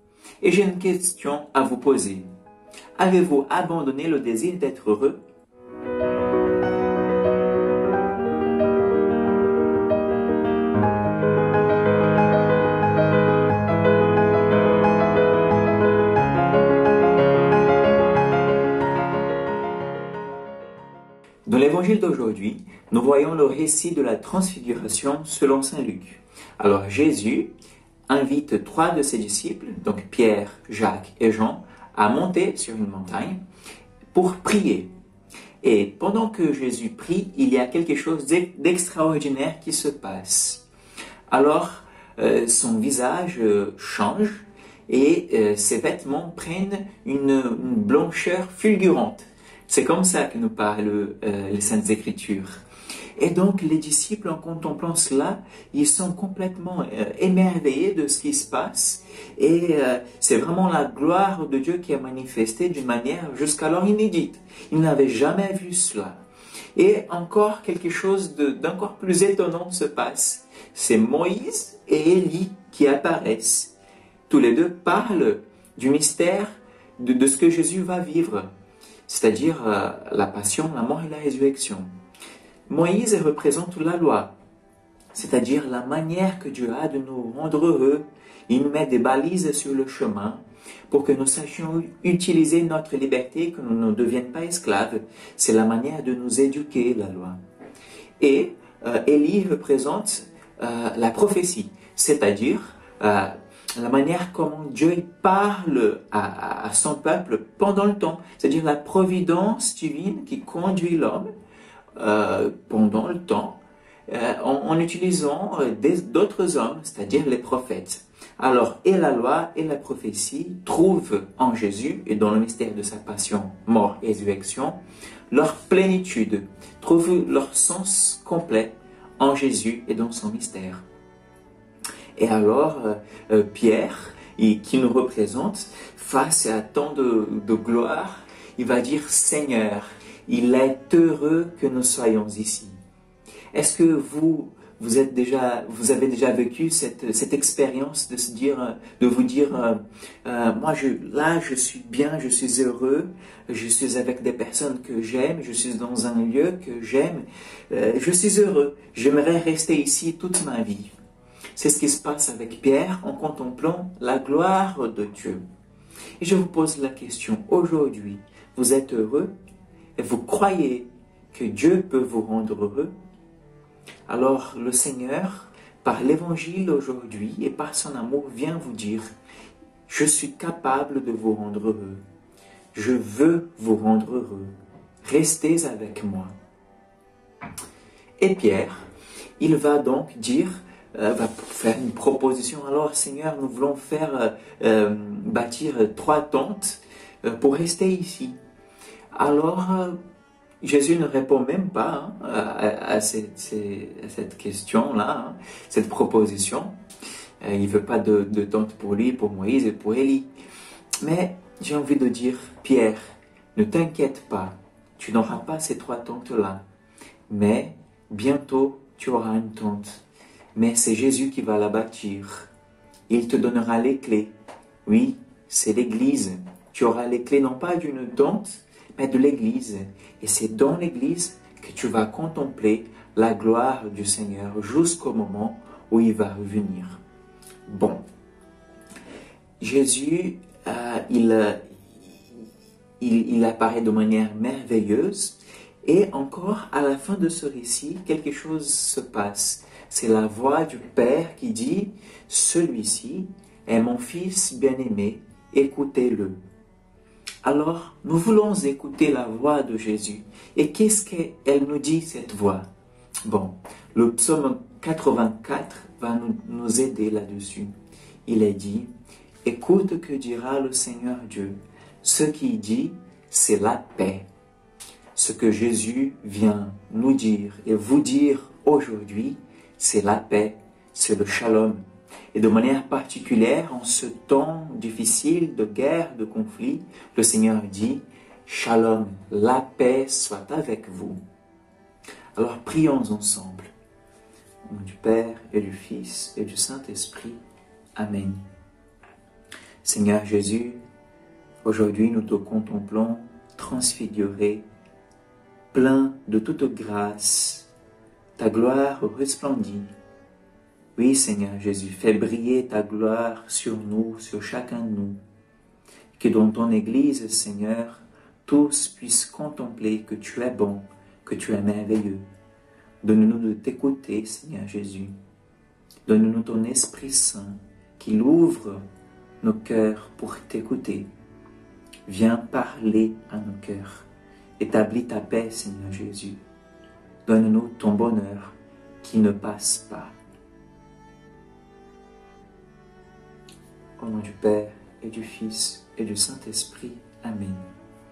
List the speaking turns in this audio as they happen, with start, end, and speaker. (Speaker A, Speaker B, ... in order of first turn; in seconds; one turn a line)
Speaker A: 0.4-2.3
Speaker A: 3.0-5.2
Speaker A: 21.5-27.5
Speaker A: 28.1-33.4
Speaker A: 34.1-34.9
Speaker A: 35.6-40.6
Speaker A: 41.3-52.6
Speaker A: 53.2-66.2
Speaker A: 66.8-73.7
Speaker A: 74.3-78.5
Speaker A: 79.1-81.9
Speaker A: 82.7-84.3
Speaker A: 85.1-97.4
Speaker A: 98.2-111.3
Speaker A: 112.0-124.8
Speaker A: 125.3-130.8
Speaker A: 132.2-142.8
Speaker A: 143.5-160.9
Speaker A: 161.6-165.4
Speaker A: 166.2-169.3
Speaker A: 170.0-172.9
Speaker A: 174.1-179.1
Speaker A: 179.9-182.0
Speaker A: 182.7-184.5
Speaker A: 185.0-186.3
Speaker A: 188.2-188.9
Speaker A: 189.4-198.4
Speaker A: 199.1-200.0
Speaker A: 200.6-206.8
Speaker A: 207.4-210.3
Speaker A: 211.0-213.0
Speaker A: 213.6-216.6
Speaker A: 217.3-220.0
Speaker A: 220.6-222.5
Speaker A: 223.1-224.3
Speaker A: 224.9-237.0
Speaker A: 237.7-238.0
Speaker A: 239.6-242.4
Speaker A: 243.0-256.4
Speaker A: 257.4-262.6
Speaker A: 263.3-267.7
Speaker A: 268.3-268.9
Speaker A: 269.4-274.2
Speaker A: 275.1-281.8
Speaker A: 282.3-291.2
Speaker A: 292.4-293.7
Speaker A: 294.7-297.4
Speaker A: 298.0-298.4
Speaker A: 299.8-300.8
Speaker A: 301.6-304.6
Speaker A: 305.7-307.7
Speaker A: 308.4-309.9
Speaker A: 311.0-315.2
Speaker A: 316.2-322.2
Speaker A: 323.0-325.1
Speaker A: 326.1-328.8
Speaker A: 329.4-331.1
Speaker A: 332.1-334.1
Speaker A: 334.6-336.4
Speaker A: 337.3-340.1
Speaker A: 344.0-347.6